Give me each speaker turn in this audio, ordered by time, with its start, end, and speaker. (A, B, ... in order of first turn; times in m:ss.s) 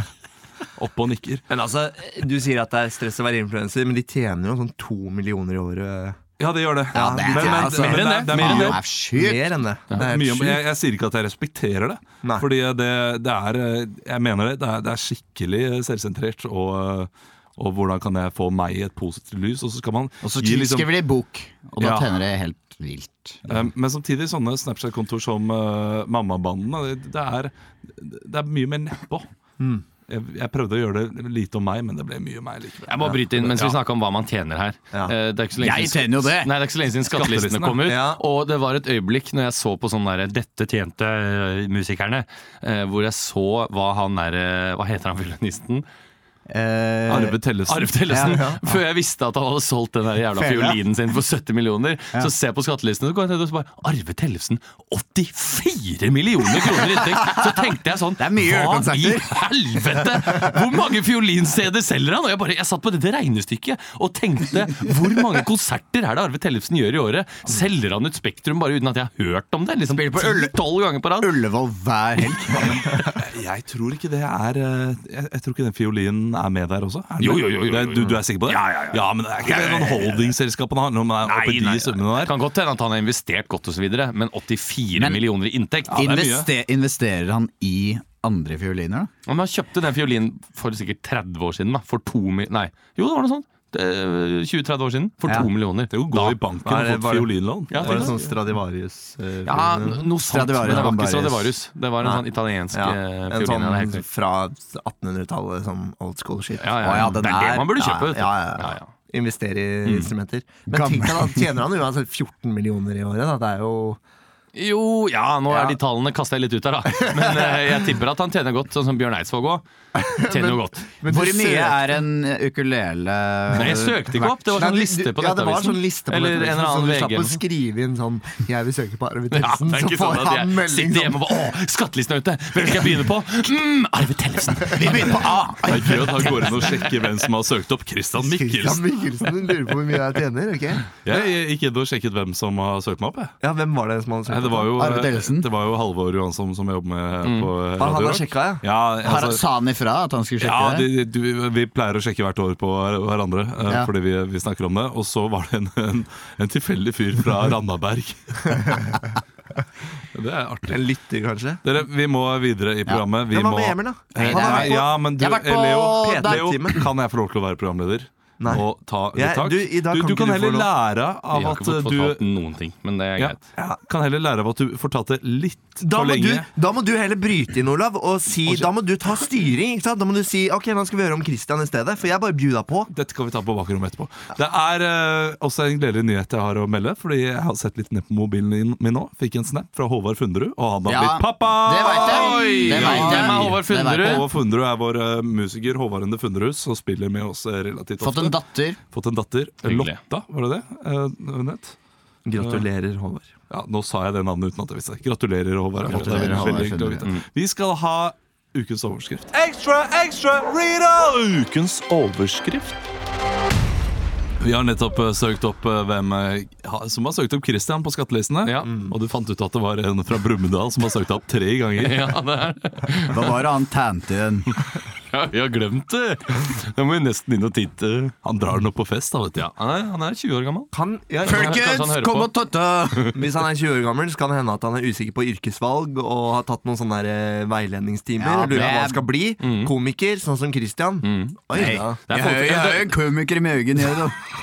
0:00.8-0:01.4 A
0:01.5-0:06.2 B
0:06.4-0:08.8 A
0:06.9-0:08.2 B
0:06.9-0:09.5 C
0:07.8-0:08.8 D
0:09.1-0:10.6 B
0:10.0-0:20.9 A
0:20.2-0:23.6 C
0:21.8-0:22.2 A
0:23.5-0:29.3 A
0:29.6-0:29.8 B
0:30.1-0:33.8 A
0:32.8-0:45.8 D
0:35.6-0:36.5 C
0:37.1-0:37.9 A
0:37.8-0:38.2 B
0:46.5-0:47.4 C
0:47.1-0:48.2 A
0:47.7-1:11.3 D
0:48.1-0:48.5 C
0:48.3-0:48.6 B
0:50.3-0:50.8 C
0:56.7-0:57.6 C
0:58.2-0:59.4 C
1:09.9-1:10.6 C
1:11.2-1:13.0 C
1:13.2-1:22.4 A
1:17.2-1:20.0 D
1:19.7-1:20.0 C
1:21.2-1:26.1 D
1:24.9-1:25.2 C
1:25.9-1:29.1 C
1:25.9-1:26.5 A
1:29.2-1:36.4 D
1:35.2-1:35.5 C
1:35.9-1:38.1 A
1:36.6-1:40.0 B
1:37.7-1:38.1 D
1:39.4-1:44.0 D
1:40.2-1:41.5 C
1:42.0-1:47.3 B
1:46.6-1:48.9 D
1:46.8-1:48.1 C
1:47.9-1:54.0 B
1:49.8-1:50.1 D
1:50.7-1:51.5 C
1:54.5-1:59.6 D
2:00.0-2:01.9 B
2:00.2-2:00.8 D
2:01.1-2:04.3 C
2:03.5-2:07.4 D
2:04.5-2:11.3 B
2:09.3-2:15.2 D
2:14.7-2:16.6 C
2:15.6-2:18.8 A
2:16.2-2:16.6 D
2:18.2-2:21.0 B
2:21.0-2:23.3 A
2:23.4-2:24.8 B
2:24.3-2:29.4 A
2:24.7-2:25.5 C
2:27.2-2:27.5 D
2:27.8-2:28.6 B
2:29.0-2:30.9 C
2:30.4-2:39.0 A
2:33.6-2:33.9 C
2:40.1-2:40.8 A
2:40.7-2:41.6 B
2:41.6-2:52.2 A
2:43.3-2:44.9 B
2:44.1-2:46.7 C
2:45.9-2:46.8 B
2:48.4-2:50.7 B
2:51.3-2:53.4 D
2:53.2-2:56.5 A
2:55.8-3:02.9 B
3:02.9-3:18.4 A
3:10.8-3:14.3 C
3:11.8-3:14.2 D
3:18.0-3:18.8 C
3:18.9-3:21.7 A
3:19.6-3:20.0 D
3:22.2-3:23.3 B
3:22.4-3:22.6 A
3:23.5-3:31.6 A
3:25.8-3:27.1 C
3:26.0-3:27.2 D
3:34.4-3:42.2 A
3:38.4-3:38.7 D
3:41.8-3:43.3 D
3:43.1-3:44.5 C
3:45.1-3:48.1 D
3:48.2-3:49.5 A
3:49.4-3:50.7 D
3:50.7-3:51.6 B
3:51.2-3:52.3 D
3:51.2-3:53.1 C
3:53.1-4:02.0 B
3:58.2-3:59.0 C
3:59.4-3:59.7 D
4:01.0-4:03.0 D
4:01.5-4:04.2 C